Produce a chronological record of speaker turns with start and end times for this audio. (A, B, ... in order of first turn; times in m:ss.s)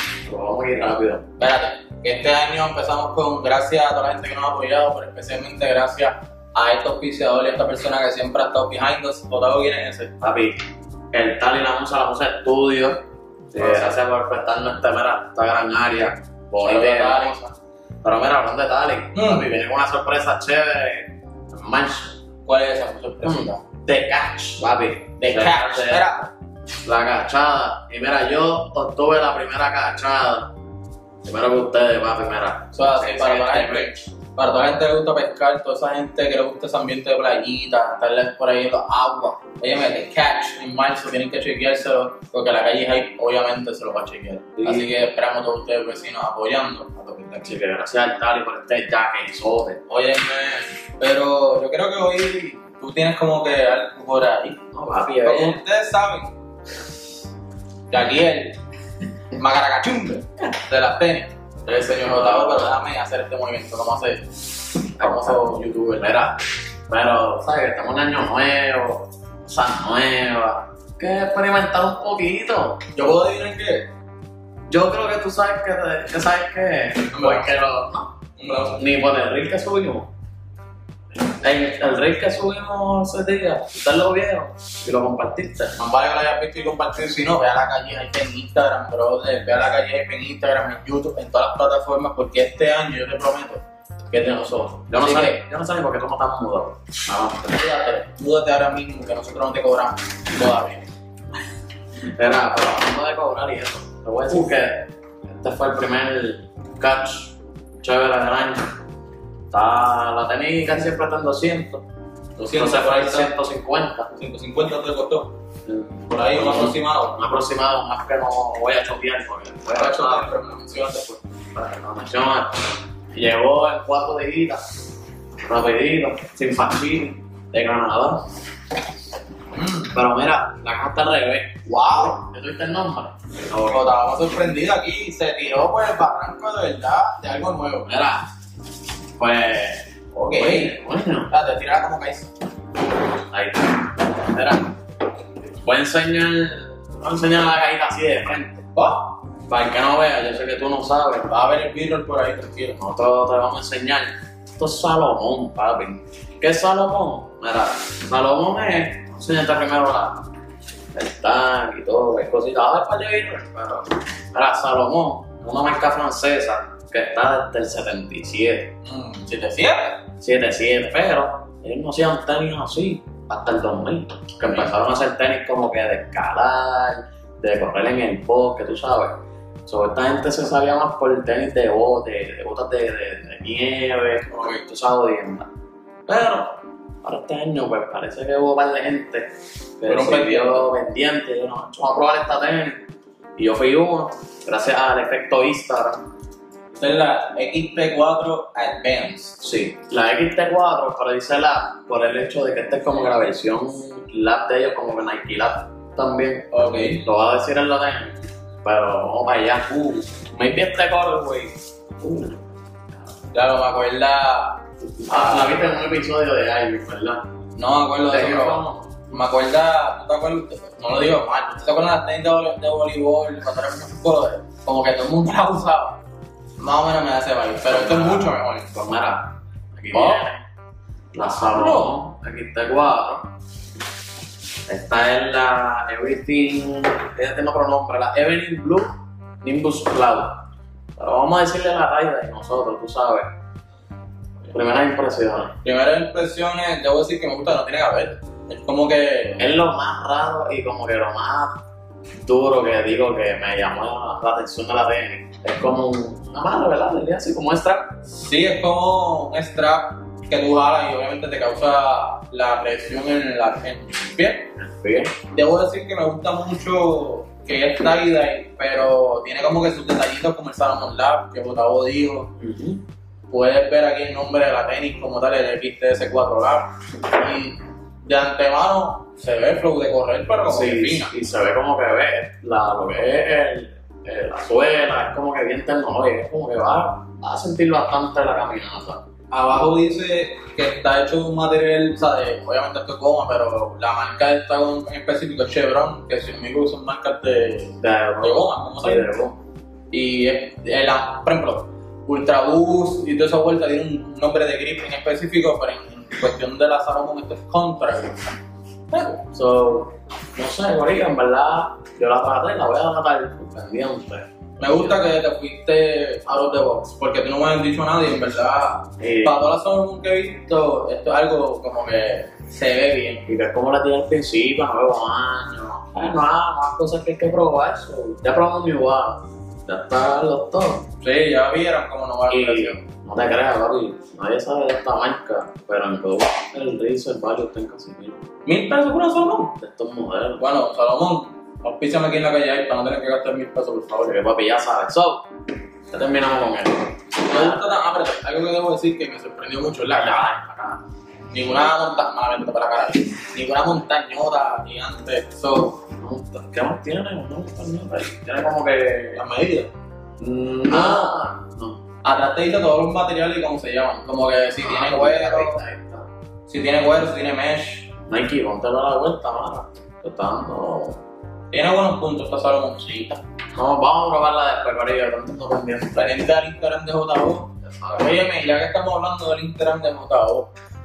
0:00.2-0:01.2 A
0:01.4-0:10.1 B
0:10.2-0:10.6 A
0:11.1-0:17.5 A
0:13.6-0:13.9 B
0:16.6-0:17.5 B
0:18.0-0:22.2 A
0:19.1-0:19.5 B
0:22.4-0:23.6 B
0:23.2-0:26.1 A
0:25.2-0:26.3 B
0:26.8-0:30.5 A
0:31.2-0:34.0 A
0:32.7-0:47.5 B
0:44.6-0:45.0 A
0:47.4-0:49.8 A
0:49.9-0:54.6 B
0:54.7-0:55.6 A
0:55.2-0:56.3 B
0:57.9-0:58.6 B
0:59.3-1:06.4 B
1:02.0-1:02.7 A
1:05.0-1:05.5 A
1:06.9-1:12.8 A
1:12.9-1:13.9 B
1:14.7-1:18.1 A
1:17.1-1:17.5 B
1:18.4-1:18.8 B
1:18.7-1:20.1 A
1:21.2-1:25.8 A
1:25.8-1:35.4 B
1:34.7-1:37.6 A
1:37.5-1:40.9 B
1:42.1-1:48.7 A
1:49.5-1:51.8 A
1:52.4-1:53.3 B
1:52.5-1:54.1 A
1:54.1-1:55.4 B
1:55.7-2:00.3 A
1:56.0-1:57.2 B
1:59.7-2:01.2 B
2:01.6-2:04.6 A
2:05.4-2:08.3 A
2:09.5-2:10.0 B
2:09.9-2:14.0 A
2:11.7-2:12.2 B
2:13.7-2:18.2 B
2:17.9-2:18.2 A
2:19.2-2:21.3 A
2:20.2-2:22.3 B
2:23.3-2:24.7 A
2:25.6-2:28.6 A
2:28.8-2:29.2 B
2:29.5-2:31.3 A
2:31.3-2:32.8 B
2:32.8-2:40.3 A
2:40.9-2:48.7 A
2:48.8-2:50.0 B
2:50.2-3:05.5 A
2:54.5-2:54.7 B
3:04.3-3:04.6 B
3:06.1-3:16.1 A
3:09.8-3:10.7 B
3:16.8-3:19.4 B
3:19.4-3:32.4 A
3:26.5-3:27.0 B
3:33.3-3:35.6 B
3:35.1-3:37.2 A
3:37.6-3:46.0 B
3:38.1-3:38.9 A
3:46.6-3:48.7 B
3:47.7-3:50.4 A
3:49.9-3:50.3 B
3:51.2-3:53.3 A
3:51.5-3:52.0 B
3:54.7-4:00.4 A
4:01.0-4:03.3 A
4:04.5-4:05.6 A
4:05.6-4:09.5 B
4:09.4-4:11.6 A
4:12.2-4:17.9 A
4:18.1-4:24.5 B
4:24.6-4:25.1 A
4:25.3-4:32.3 B
4:32.4-4:32.8 A
4:33.3-4:41.1 B
4:40.4-4:49.0 A
4:49.3-4:59.1 B
4:57.8-4:59.4 A
4:59.9-5:08.3 B
5:08.9-5:09.2 B
5:09.3-5:14.9 A
5:14.6-5:23.3 B
5:19.0-5:19.5 A
5:23.2-5:30.9 A
5:31.0-5:32.8 B
5:32.3-5:38.2 A
5:38.4-5:39.6 B
5:39.6-5:40.4 A
5:40.4-5:44.2 B
5:44.1-5:45.2 A
5:45.9-5:47.8 A
5:47.2-5:50.4 B
5:50.0-5:50.8 A
5:51.3-5:55.8 B
5:56.0-5:59.2 A
5:59.1-5:59.7 B
6:00.2-6:01.8 A
6:00.7-6:01.1 B
6:02.0-6:05.6 B
6:04.6-6:06.1 A
6:06.5-6:07.9 B
6:08.1-6:11.0 A
6:11.5-6:13.2 B
6:13.5-6:16.2 A
6:15.9-6:20.5 B
6:17.8-6:18.2 A